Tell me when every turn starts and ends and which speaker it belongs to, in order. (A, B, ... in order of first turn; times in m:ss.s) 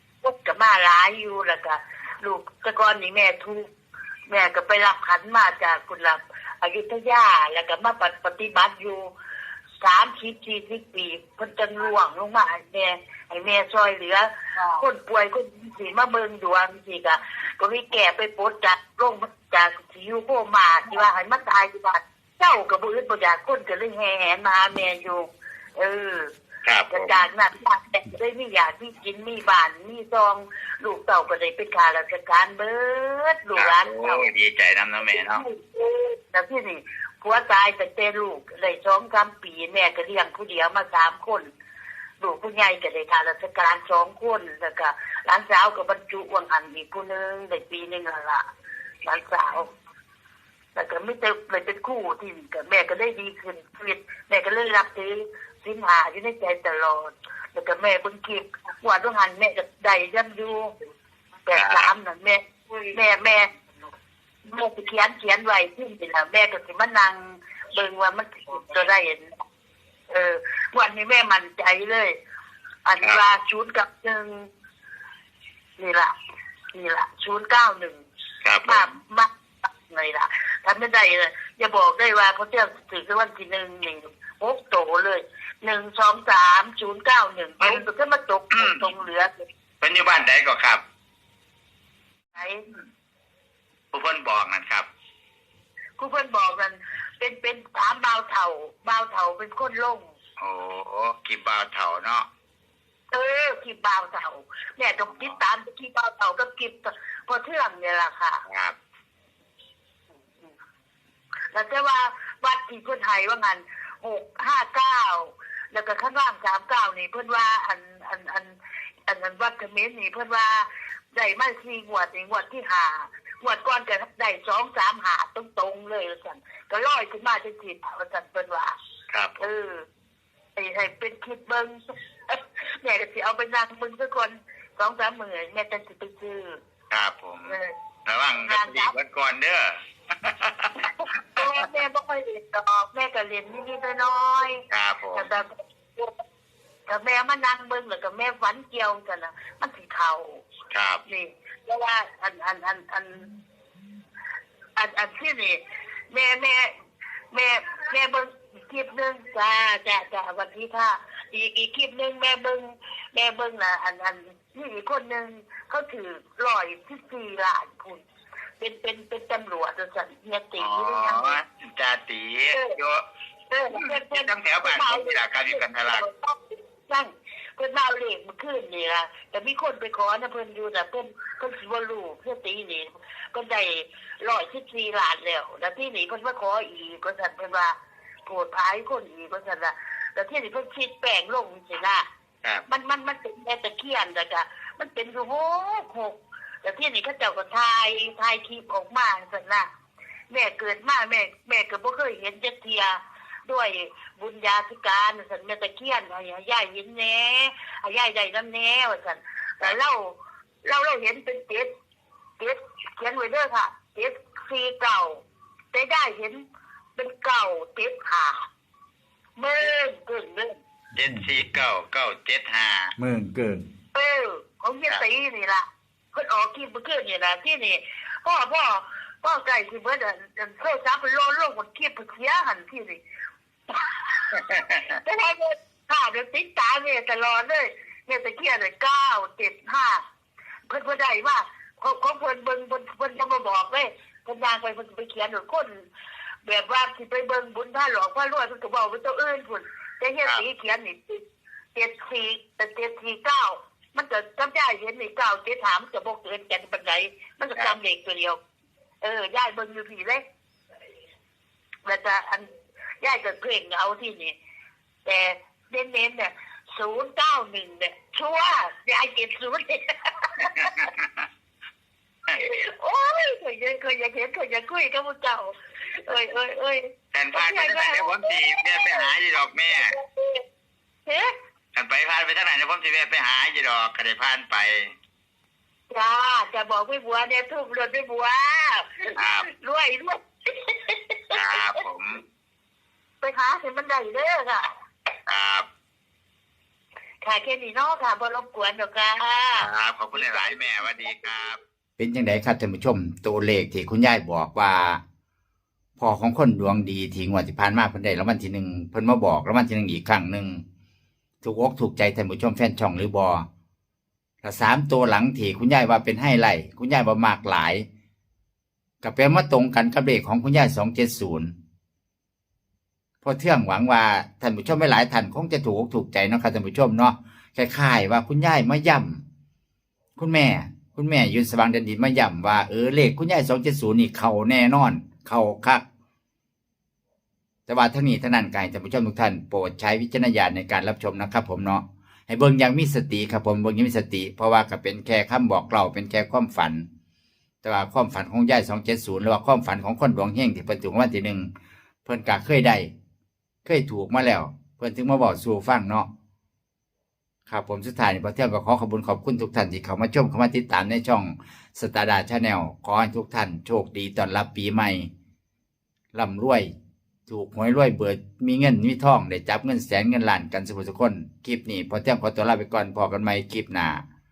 0:00.2-0:03.7 A
0:04.3-0:09.1 A
0:09.8-0:25.2 A
0:25.8-0:26.3 A
0:26.6-0:27.2 B
0:26.9-0:34.3 A
0:33.6-0:35.4 B
0:35.1-0:41.5 A
0:42.2-0:48.4 A
0:49.0-0:49.7 A
0:50.7-1:00.7 A
1:01.5-1:03.5 A
1:01.5-1:01.9 B
1:04.4-1:09.3 A
1:10.1-1:12.2 A
1:12.8-1:14.5 A
1:15.8-1:16.1 A
1:16.7-1:18.0 A
1:18.4-1:18.8 B
1:18.6-1:29.3 A
1:28.5-1:28.9 B
1:29.8-1:30.8 B
1:32.4-1:32.6 A
1:33.9-1:34.9 B
1:36.0-1:40.0 A
1:40.4-1:42.3 B
1:43.1-1:48.4 A
1:45.0-1:45.4 B
1:48.5-1:48.8 B
1:51.5-1:58.5 A
1:59.1-2:08.8 A
2:09.1-2:09.5 B
2:09.4-2:09.8 A
2:10.6-2:11.7 A
2:12.3-2:16.6 A
2:16.9-2:21.5 B
2:17.4-2:17.7 A
2:18.4-2:18.9 A
2:21.0-2:26.1 A
2:24.7-2:25.3 B
2:26.9-2:30.4 A
2:30.7-2:31.0 B
2:31.1-2:33.3 A
2:34.8-2:35.6 A
2:36.1-2:36.7 A
2:37.3-2:48.0 A
2:48.6-2:51.4 A
2:50.6-2:53.0 B
2:52.5-2:52.8 A
2:53.5-3:07.7 A
2:53.7-2:56.0 B
3:08.2-3:12.0 A
3:12.7-3:19.6 A
3:20.3-3:31.7 A
3:32.4-3:35.2 A
3:35.7-3:36.4 A
3:37.0-3:38.5 A
3:39.4-3:40.5 A
3:41.0-3:42.9 B
3:41.0-3:41.3 C
3:43.0-3:43.7 C
3:43.9-3:53.0 A
3:53.7-3:54.2 A
3:54.3-3:55.0 B
3:54.9-4:00.0 A
4:00.7-4:05.7 A
4:06.4-4:11.2 A
4:11.7-4:18.4 A
4:19.0-4:20.2 A
4:21.8-4:22.4 A
4:23.0-4:24.4 A
4:25.0-4:30.9 A
4:30.5-4:31.1 B
4:32.4-4:35.5 A
4:36.0-4:39.1 A
4:37.1-4:39.9 B
4:39.7-4:40.4 A
4:41.7-4:44.9 B
4:45.9-4:51.8 A
4:49.2-4:49.5 B
4:51.3-4:52.2 B
4:53.2-4:54.6 A
4:55.3-4:55.7 B
4:57.2-5:01.3 A
4:59.6-5:01.6 B
5:02.0-5:05.0 C
5:06.0-5:10.6 C
5:11.4-5:13.4 C
5:14.4-5:17.8 C
5:19.0-5:21.5 C
5:23.2-5:29.2 C
5:30.2-5:35.8 C
5:37.7-5:46.9 C
5:47.6-5:51.5 C
5:52.0-5:52.9 C
5:53.6-5:56.1 C
5:57.5-6:05.1 C
6:06.1-6:06.7 C
6:07.3-6:14.0 C